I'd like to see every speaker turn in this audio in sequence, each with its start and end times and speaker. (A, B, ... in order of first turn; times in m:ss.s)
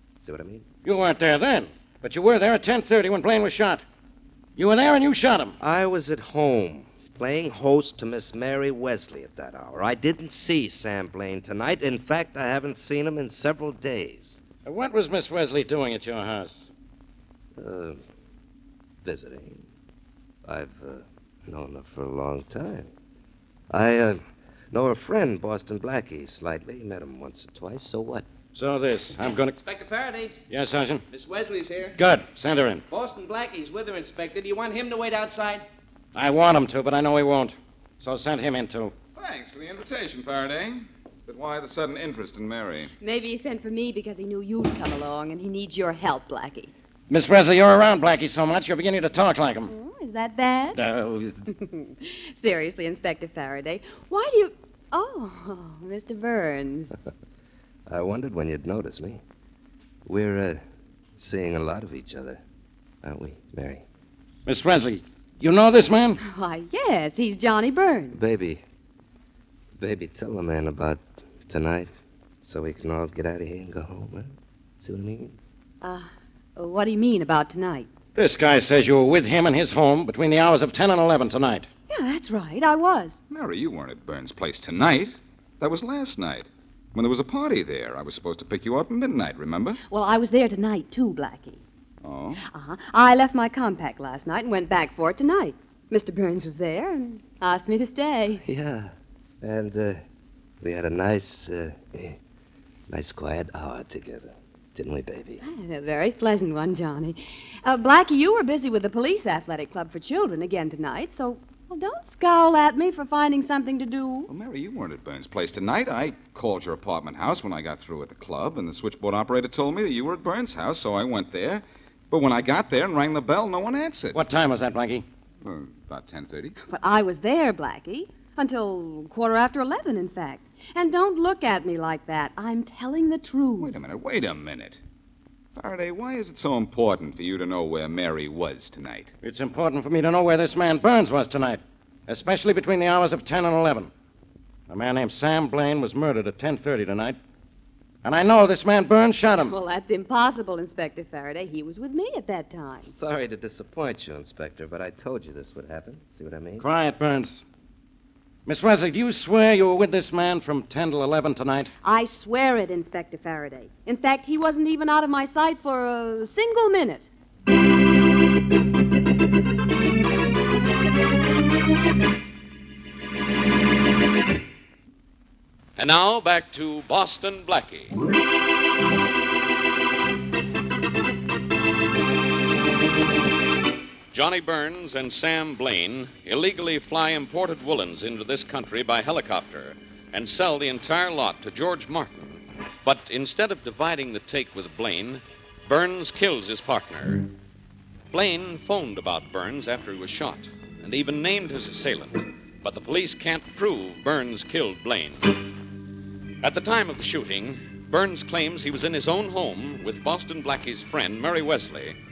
0:00.2-0:00.7 A
0:00.8-0:03.8 B
0:04.6-0:05.6 B
0:05.6-0:14.4 A
0:14.6-0:16.7 B
0:17.6-0:18.0 A
0:19.0-0:19.6 A
0:20.4-0:22.9 A
0:23.7-0:28.2 A
0:28.5-0:29.6 B
0:29.6-0:30.4 C
0:30.5-0:31.0 B
0:31.1-0:32.0 C
0:31.9-0:32.8 B
0:32.9-0:35.7 C
0:36.1-0:38.9 B
0:39.1-0:42.9 D
0:43.0-0:46.7 E
0:47.1-0:49.7 B
0:49.7-0:50.8 E
0:50.8-0:51.4 B
0:51.5-0:56.9 E
0:57.9-0:59.2 A
1:00.0-1:00.6 A
1:01.2-1:02.4 A
1:03.0-1:03.8 A
1:04.4-1:06.2 B
1:06.2-1:08.2 E
1:08.1-1:08.6 A
1:09.8-1:11.9 A
1:12.4-1:15.4 A
1:15.8-1:17.9 E
1:18.2-1:21.7 B
1:21.9-1:23.2 E
1:23.3-1:29.8 D
1:29.9-1:31.6 E
1:32.0-1:32.4 D
1:32.5-1:38.4 E
1:38.4-1:40.0 A
1:40.6-1:42.2 A
1:42.9-1:45.4 A
1:45.4-1:54.3 E
1:54.3-2:04.2 D
2:04.1-2:05.0 B
2:05.4-2:06.6 D
2:06.7-2:13.7 E
2:13.6-2:14.8 D
2:15.6-2:19.1 D
2:19.2-2:23.9 B
2:24.7-2:27.2 B
2:28.0-2:29.5 B
2:29.4-2:32.9 E
2:33.0-2:36.6 A
2:36.6-2:37.4 B
2:38.4-2:41.7 B
2:41.8-2:47.0 E
2:55.8-2:57.9 F
3:04.1-3:12.2 F
3:12.8-3:17.3 F
3:18.1-3:25.5 F
3:26.4-3:32.0 F